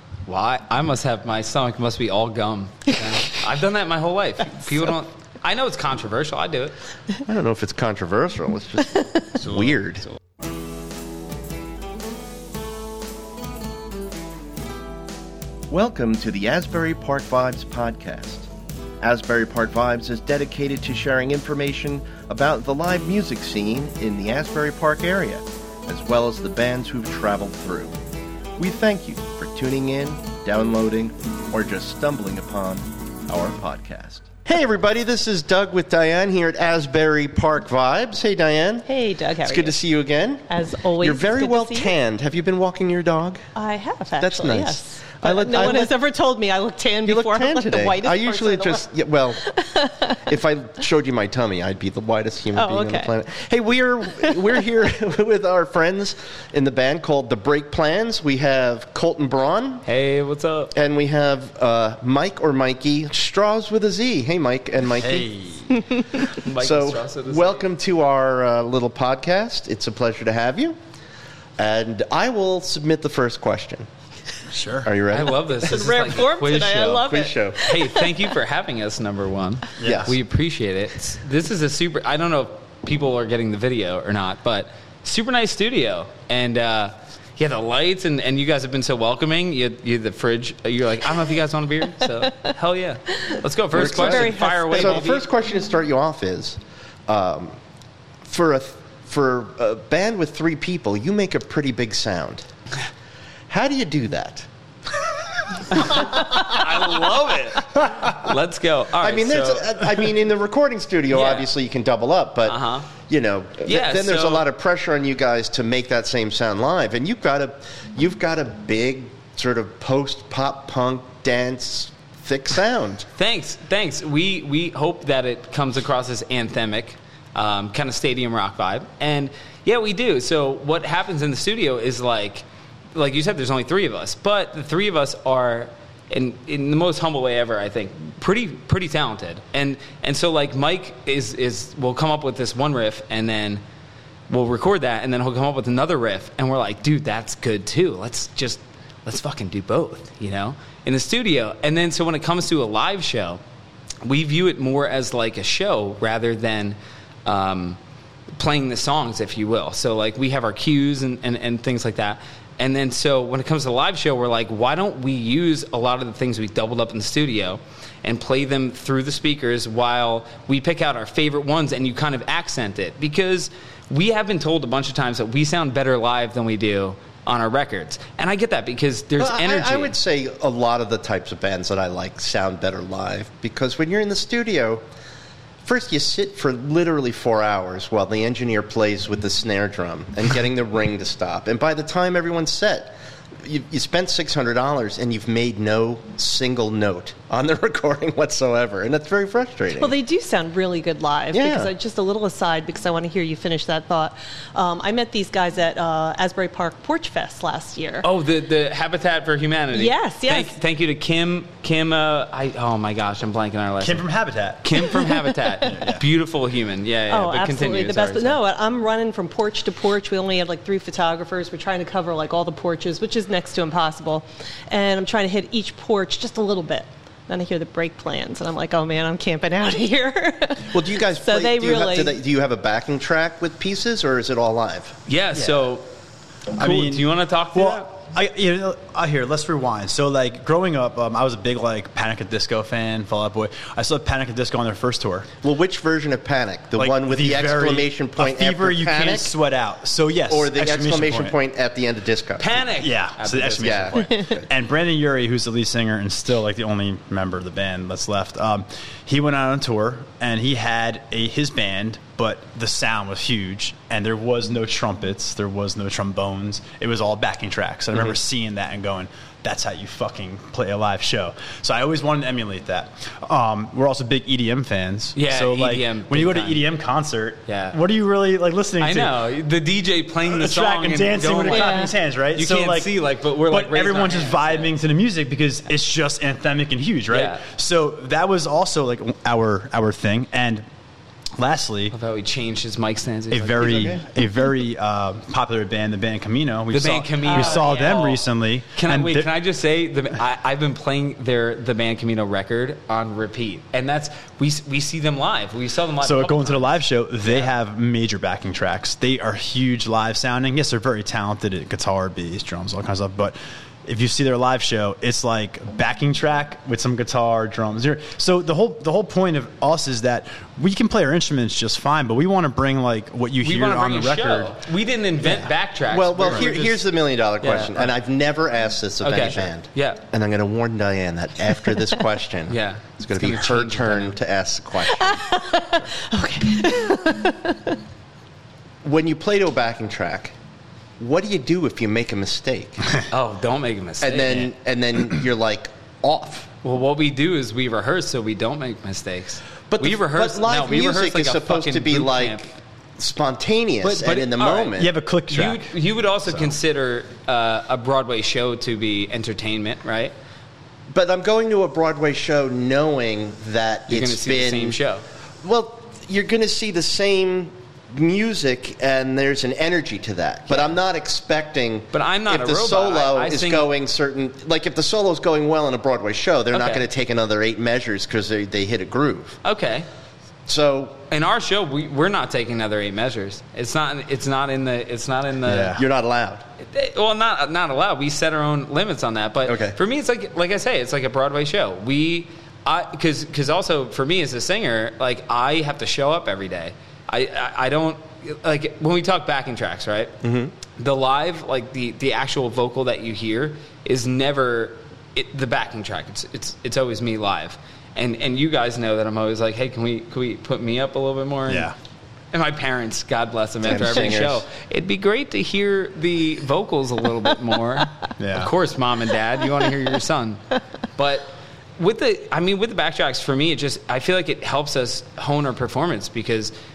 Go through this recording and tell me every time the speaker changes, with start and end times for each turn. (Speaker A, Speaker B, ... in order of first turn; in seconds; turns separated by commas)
Speaker A: 0.3-6.7, Speaker B: 7.2-10.0, Speaker B: 15.7-18.5, Speaker B: 19.0-27.9, Speaker B: 28.6-38.9, Speaker C: 38.8-39.8, Speaker B: 39.4-40.5, Speaker C: 40.5-41.9, Speaker B: 41.0-43.4, Speaker C: 43.5-48.9, Speaker B: 44.2-45.9, Speaker B: 47.0-49.5, Speaker C: 49.4-50.2, Speaker B: 50.3-59.8, Speaker C: 52.5-53.1, Speaker A: 59.8-60.7, Speaker B: 60.8-65.3, Speaker D: 65.0-65.8, Speaker B: 66.2-70.8, Speaker A: 66.4-67.7, Speaker B: 71.6-73.9, Speaker D: 74.5-74.9, Speaker B: 74.8-75.5, Speaker A: 75.1-77.1, Speaker C: 75.6-78.1, Speaker B: 77.0-77.6, Speaker A: 77.6-95.2, Speaker D: 79.8-80.1, Speaker B: 79.8-80.2, Speaker C: 93.7-95.2, Speaker B: 93.7-97.6, Speaker B: 98.2-102.5, Speaker B: 103.5-104.5, Speaker B: 105.6-107.1, Speaker A: 105.7-109.7, Speaker B: 109.0-123.1, Speaker A: 111.1-111.5, Speaker A: 112.5-112.9, Speaker A: 113.6-114.5, Speaker A: 123.2-143.6, Speaker A: 144.3-153.4, Speaker A: 154.0-157.8, Speaker A: 158.4-180.0, Speaker B: 179.2-184.8, Speaker B: 185.6-199.9, Speaker C: 199.8-208.0, Speaker B: 201.3-201.7, Speaker A: 208.0-214.1, Speaker C: 209.7-210.5, Speaker D: 213.8-214.7, Speaker A: 214.6-218.4, Speaker C: 214.9-215.8, Speaker D: 215.7-216.0, Speaker C: 217.1-232.2, Speaker B: 230.7-234.9, Speaker A: 235.1-235.8, Speaker D: 236.5-245.3, Speaker A: 236.6-237.9, Speaker B: 245.4-249.3, Speaker D: 246.8-251.3, Speaker B: 250.3-252.5, Speaker A: 252.4-254.5, Speaker D: 252.8-279.2, Speaker B: 253.6-253.9, Speaker A: 275.1-276.6, Speaker A: 277.5-277.8, Speaker A: 278.8-284.7, Speaker D: 280.2-282.9, Speaker C: 281.5-281.9, Speaker D: 283.5-290.6, Speaker A: 287.1-287.4, Speaker D: 291.4-291.9, Speaker A: 291.9-294.0, Speaker D: 293.3-299.3, Speaker B: 293.6-294.0, Speaker A: 296.7-306.6, Speaker C: 297.2-297.9, Speaker D: 306.0-324.5, Speaker A: 307.2-307.5, Speaker A: 323.4-326.9, Speaker D: 325.2-325.5, Speaker B: 325.9-335.3, Speaker A: 327.4-327.7, Speaker A: 329.0-330.0, Speaker A: 332.5-334.1, Speaker C: 335.0-337.7, Speaker B: 338.8-340.3, Speaker B: 341.0-342.9, Speaker A: 343.1-344.5, Speaker B: 344.0-346.5, Speaker A: 346.6-352.5, Speaker B: 349.7-354.9, Speaker A: 353.8-354.7, Speaker D: 354.8-355.7, Speaker A: 355.3-360.1, Speaker D: 356.2-356.5, Speaker B: 360.9-364.8, Speaker A: 363.9-365.0, Speaker B: 365.4-379.4, Speaker A: 371.9-373.7, Speaker A: 376.5-376.8, Speaker A: 379.4-379.9, Speaker B: 380.5-381.0, Speaker A: 381.1-385.7, Speaker D: 385.4-385.8, Speaker B: 385.7-386.4, Speaker A: 386.6-400.1, Speaker B: 389.4-389.8, Speaker B: 400.2-400.5, Speaker A: 400.8-411.7, Speaker D: 411.5-411.7, Speaker A: 412.3-420.4, Speaker B: 413.6-414.4, Speaker D: 418.2-418.5, Speaker A: 420.9-426.5